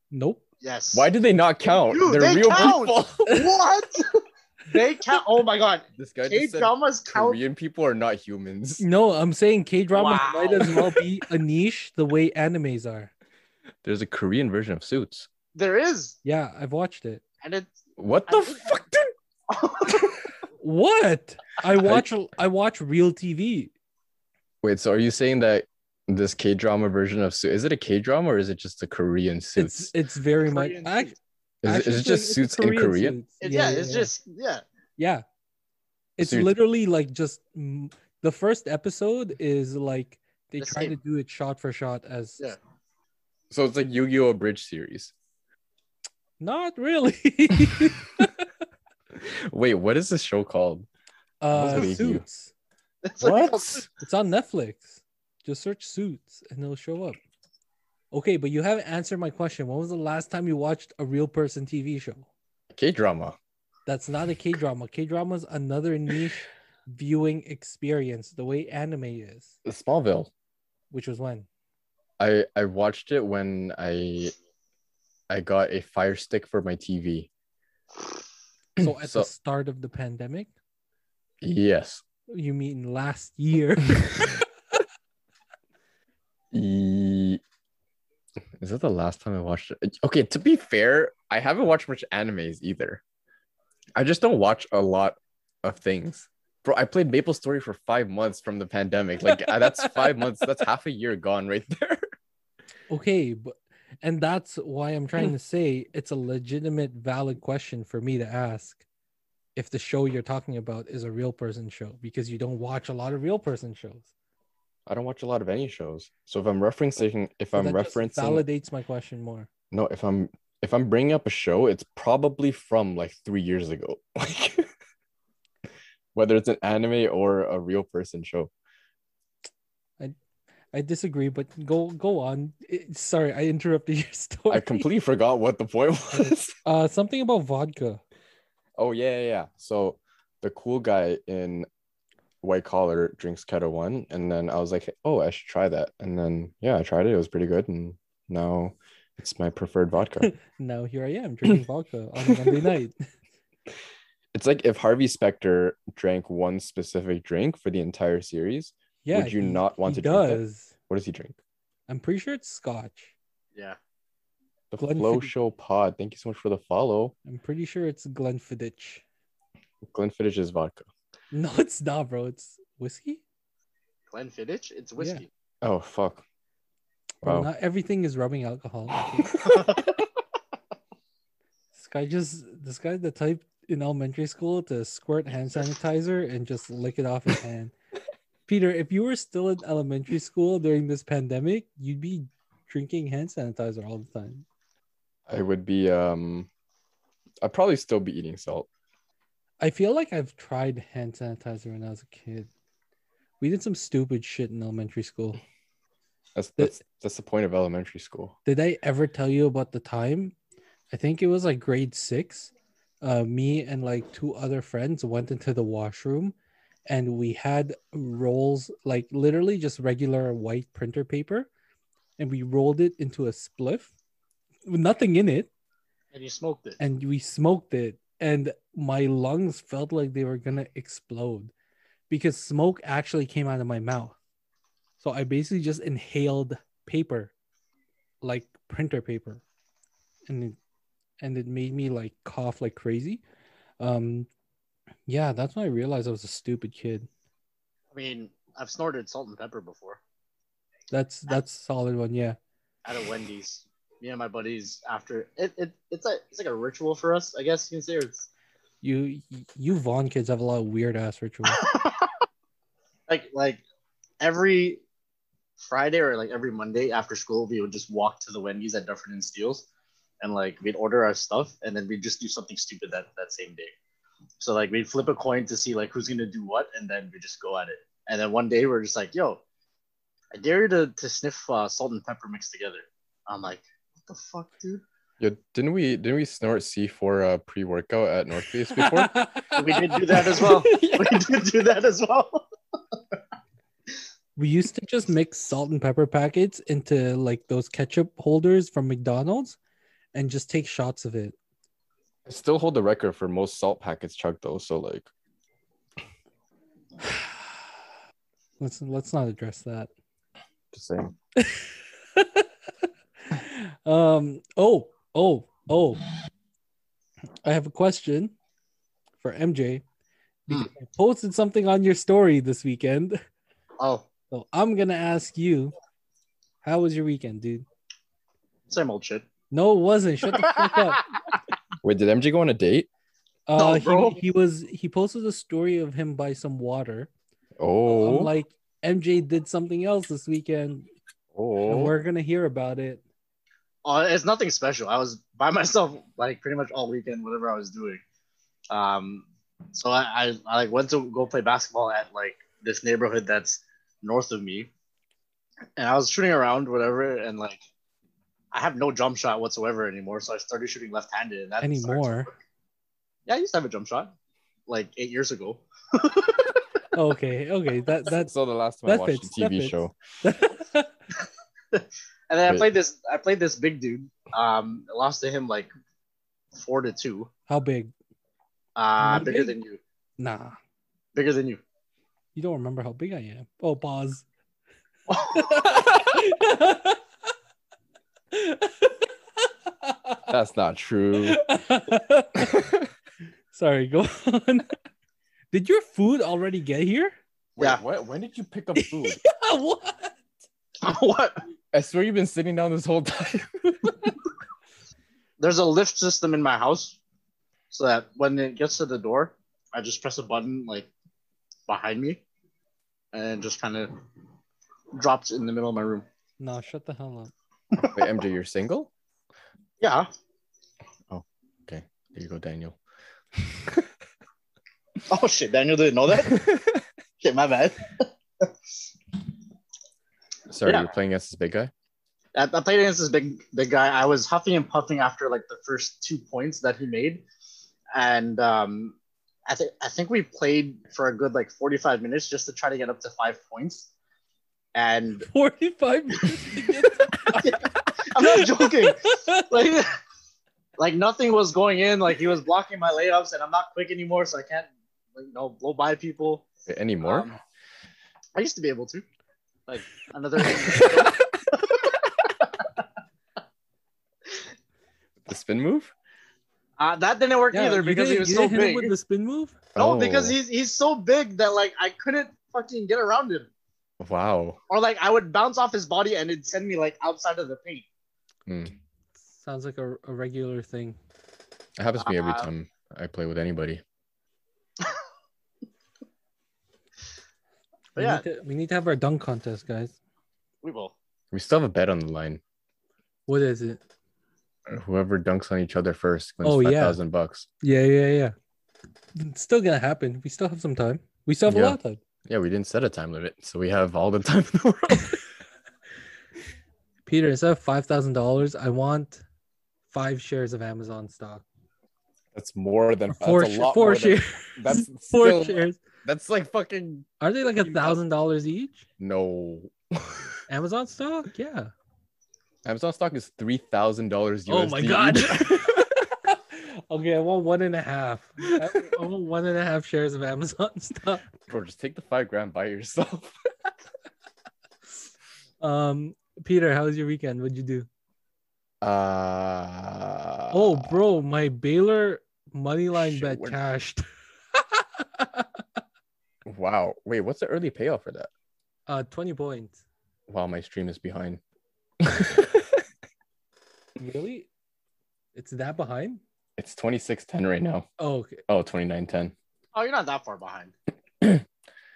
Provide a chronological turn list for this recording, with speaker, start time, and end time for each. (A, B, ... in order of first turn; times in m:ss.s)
0:00.1-0:00.4 A
0:00.6-0:01.1 B
0:00.9-0:03.4 C
0:01.9-0:04.1 B
0:04.7-0:07.4 B
0:06.0-0:08.8 C
0:08.8-0:13.1 A
0:09.9-0:10.8 B
0:13.8-0:15.3 C
0:15.5-0:16.2 B
0:16.2-0:17.2 A
0:17.4-0:17.7 B
0:18.0-0:19.1 C
0:18.3-0:18.7 B
0:19.5-0:20.2 B
0:20.6-0:23.7 A
0:21.8-0:22.1 C
0:24.6-0:29.9 C
0:29.6-0:34.1 A
0:30.4-0:31.1 B
0:31.6-0:33.2 C
0:33.4-0:34.6 B
0:35.0-0:35.2 A
0:36.2-0:42.5 A
0:36.2-0:36.5 C
0:40.6-0:40.9 B
0:43.5-0:45.1 C
0:46.4-0:48.3 A
0:49.1-0:50.9 C
0:51.4-0:52.5 A
0:51.5-0:52.2 C
0:53.0-0:53.8 B
0:53.2-0:53.9 C
0:54.0-0:57.2 A
0:58.1-1:02.3 A
1:02.7-1:03.4 C
1:03.9-1:09.5 A
1:09.6-1:10.3 C
1:10.9-1:11.5 A
1:12.2-1:14.3 C
1:15.3-1:17.3 C
1:18.8-1:19.3 C
1:18.8-1:20.5 A
1:21.4-1:22.0 C
1:22.3-1:24.4 A
1:26.5-1:27.4 C
1:28.6-1:33.0 C
1:33.9-1:42.0 C
1:39.3-1:40.2 A
1:42.9-1:48.8 A
1:49.6-1:54.1 A
1:54.9-1:58.4 C
1:57.5-1:59.5 A
1:59.7-2:04.7 C
2:06.1-2:08.5 C
2:10.7-2:14.8 A
2:14.5-2:16.5 C
2:16.1-2:18.0 A
2:18.8-2:21.7 C
2:22.4-2:30.3 C
2:30.2-2:33.0 A
2:32.2-2:32.5 C
2:34.3-2:41.4 C
2:39.0-2:40.7 A
2:41.9-2:43.1 A
2:44.7-2:47.1 C
2:44.8-2:45.3 A
2:47.2-2:49.0 A
2:49.9-2:50.9 C
2:51.3-2:53.2 A
2:54.1-2:55.3 B
2:55.0-2:55.2 A
2:55.6-2:56.2 C
2:57.2-2:57.5 C
2:57.2-2:59.4 A
2:59.4-2:59.9 B
3:01.7-3:07.7 A
3:08.5-3:14.4 A
3:15.3-3:16.5 C
3:17.4-3:18.7 C
3:19.6-3:22.5 A
3:23.4-3:25.4 A
3:26.3-3:28.3 C
3:28.4-3:30.3 A
3:30.9-3:36.3 A
3:36.9-3:41.5 A
3:42.2-3:43.9 A
3:44.6-3:45.5 A
3:46.1-3:46.8 B
3:46.8-3:51.5 A
3:52.1-3:54.2 A
3:55.0-3:57.3 A
3:58.2-3:59.4 A
4:00.3-4:00.6 A
4:01.2-4:03.2 A
4:03.8-4:04.3 A
4:05.1-4:07.1 A
4:07.9-4:10.0 B
4:10.9-4:12.4 A
4:12.8-4:18.3 B
4:18.8-4:21.6 A
4:21.5-4:22.1 B
4:23.1-4:23.6 B
4:24.2-4:24.8 B
4:25.6-4:29.7 B
4:30.2-4:33.7 B
4:34.4-4:39.4 B
4:40.3-4:44.8 B
4:45.2-4:49.1 C
4:48.7-4:51.0 A
4:49.6-4:52.4 B
4:50.1-4:51.1 C
4:54.4-4:59.6 A
5:00.1-5:01.4 A
5:02.2-5:05.1 C
5:08.6-5:09.9 A
5:10.7-5:11.1 C
5:11.4-5:12.5 A
5:13.3-5:16.0 A
5:17.4-5:18.3 A
5:19.2-5:19.8 A
5:20.5-5:23.2 A
5:23.8-5:24.1 B
5:24.3-5:25.7 A
5:26.6-5:27.6 A
5:28.7-5:29.3 B
5:29.5-5:31.0 A
5:30.3-5:31.0 B
5:31.8-5:32.9 C
5:33.5-5:37.1 A
5:33.6-5:34.2 B
5:37.6-5:38.3 C
5:37.8-5:40.9 A
5:41.3-5:41.9 C
5:41.6-5:43.0 A
5:43.8-5:48.0 B
5:48.7-5:54.7 B
5:55.8-5:57.6 B
5:58.5-6:02.4 B
6:01.6-6:02.3 A
6:03.3-6:04.1 B
6:04.7-6:06.6 B
6:06.9-6:08.3 A
6:08.1-6:10.0 C
6:08.8-6:10.9 A
6:11.7-6:15.7 B
6:16.5-6:17.3 B
6:17.5-6:17.9 A
6:18.8-6:19.8 B
6:19.0-6:19.5 A
6:20.2-6:20.6 A
6:21.1-6:21.6 B
6:22.3-6:24.2 A
6:25.1-6:27.0 A
6:25.1-6:25.5 B
6:28.3-6:28.9 A
6:29.7-6:30.3 A
6:30.3-6:31.4 C
6:31.2-6:32.6 A
6:32.4-6:32.9 C
6:33.5-6:34.7 A
6:35.5-6:37.1 A
6:37.6-6:39.2 C
6:38.7-6:40.2 A
6:40.8-6:41.4 B
6:41.7-6:44.1 C
6:45.4-6:47.0 B
6:47.7-6:50.9 B
6:51.7-6:52.2 B
6:53.1-6:53.9 B
6:55.0-6:56.0 B
6:56.4-6:57.3 A
6:57.7-6:58.1 B
6:57.9-6:58.9 C
6:59.8-7:00.1 B
7:01.1-7:02.8 C
7:03.4-7:03.8 C
7:05.1-7:06.4 B
7:06.2-7:06.8 C
7:07.2-7:08.1 B
7:10.5-7:11.7 C
7:12.3-7:17.2 B
7:17.9-7:23.9 B
7:24.7-7:25.3 B
7:25.2-7:27.6 A
7:27.2-7:29.9 B
7:28.2-7:29.4 A
7:30.8-7:36.5 B
7:36.7-7:37.3 C
7:37.0-7:37.4 B
7:38.3-7:39.0 B
7:39.7-7:42.7 B
7:40.6-7:41.1 C
7:45.2-7:45.9 C
7:46.8-7:48.9 B
7:47.5-7:49.6 A
7:49.7-7:50.4 C
7:49.8-7:53.5 B
7:54.0-7:54.6 C
7:54.7-7:57.8 B
7:58.5-7:58.7 C
7:59.3-8:01.0 A
8:01.8-8:03.8 C
8:02.0-8:02.5 B
8:08.0-8:08.2 B
8:08.0-8:10.0 A
8:10.6-8:10.9 B
8:11.3-8:12.4 C
8:13.3-8:13.8 A
8:14.7-8:17.5 C
8:16.4-8:17.0 A
8:17.6-8:18.3 A
8:19.2-8:22.0 A
8:21.5-8:25.2 C
8:27.0-8:29.2 A
8:29.9-8:31.4 A
8:32.3-8:37.1 C
8:33.1-8:35.8 A
8:37.2-8:38.8 A
8:37.6-8:38.0 C
8:39.0-8:40.3 C
8:40.5-8:41.7 A
8:42.6-8:45.9 C
8:44.5-8:51.3 A
8:51.4-8:53.7 C
8:55.6-8:57.9 A
8:58.8-9:01.0 C
9:00.5-9:04.0 A
9:02.9-9:03.6 C
9:04.5-9:05.4 A
9:06.4-9:08.3 C
9:08.9-9:09.8 A
9:10.3-9:11.4 C
9:12.0-9:12.8 C
9:14.0-9:14.5 A
9:15.3-9:16.2 A
9:16.6-9:17.9 C
9:18.0-9:18.4 A
9:18.5-9:19.3 C
9:19.7-9:20.7 B